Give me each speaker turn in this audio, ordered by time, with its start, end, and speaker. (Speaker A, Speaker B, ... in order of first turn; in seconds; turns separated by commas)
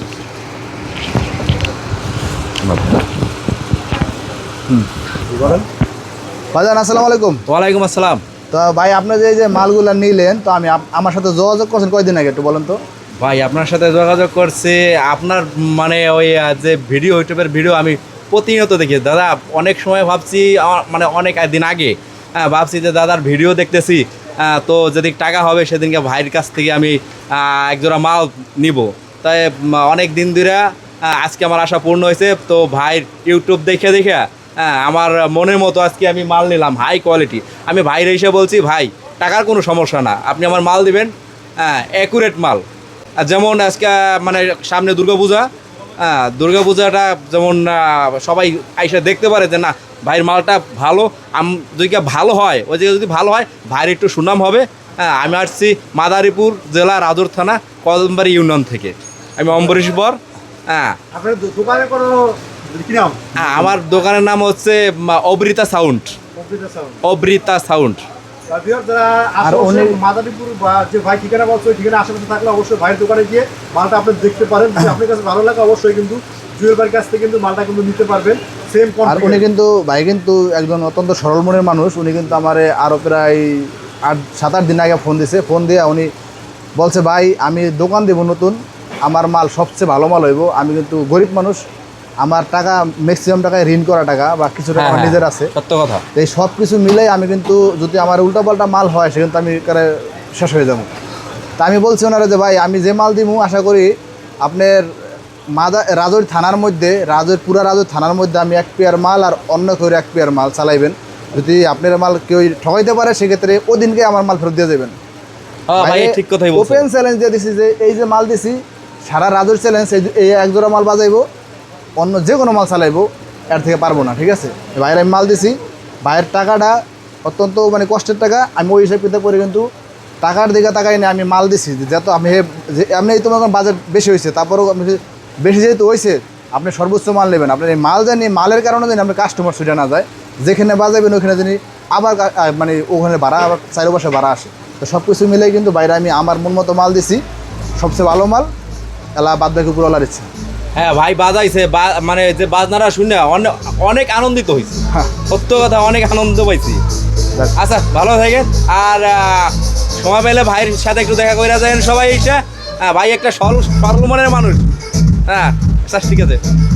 Speaker A: 2.6-3.0, Speaker B: 5.3-5.6, Speaker C: 6.5-7.4, Speaker A: 7.5-8.2, Speaker C: 8.5-12.8, Speaker A: 13.2-42.6, Speaker A: 43.2-45.5, Speaker A: 46.0-61.0, Speaker B: 61.1-63.2, Speaker A: 63.4-66.2, Speaker C: 63.4-63.7, Speaker B: 66.3-67.0, Speaker A: 67.0-68.0, Speaker B: 68.5-79.5, Speaker C: 69.4-70.0, Speaker C: 79.0-86.1, Speaker C: 86.8-91.6, Speaker C: 92.2-95.5, Speaker A: 94.8-96.0, Speaker C: 96.2-100.9, Speaker C: 101.6-103.9, Speaker C: 104.4-105.0, Speaker C: 105.5-115.0, Speaker A: 115.7-116.8, Speaker C: 115.8-121.2, Speaker C: 122.0-129.7, Speaker C: 130.2-147.2, Speaker C: 147.8-148.5, Speaker C: 149.2-150.3, Speaker A: 150.8-156.8, Speaker A: 157.6-164.6, Speaker A: 165.3-166.4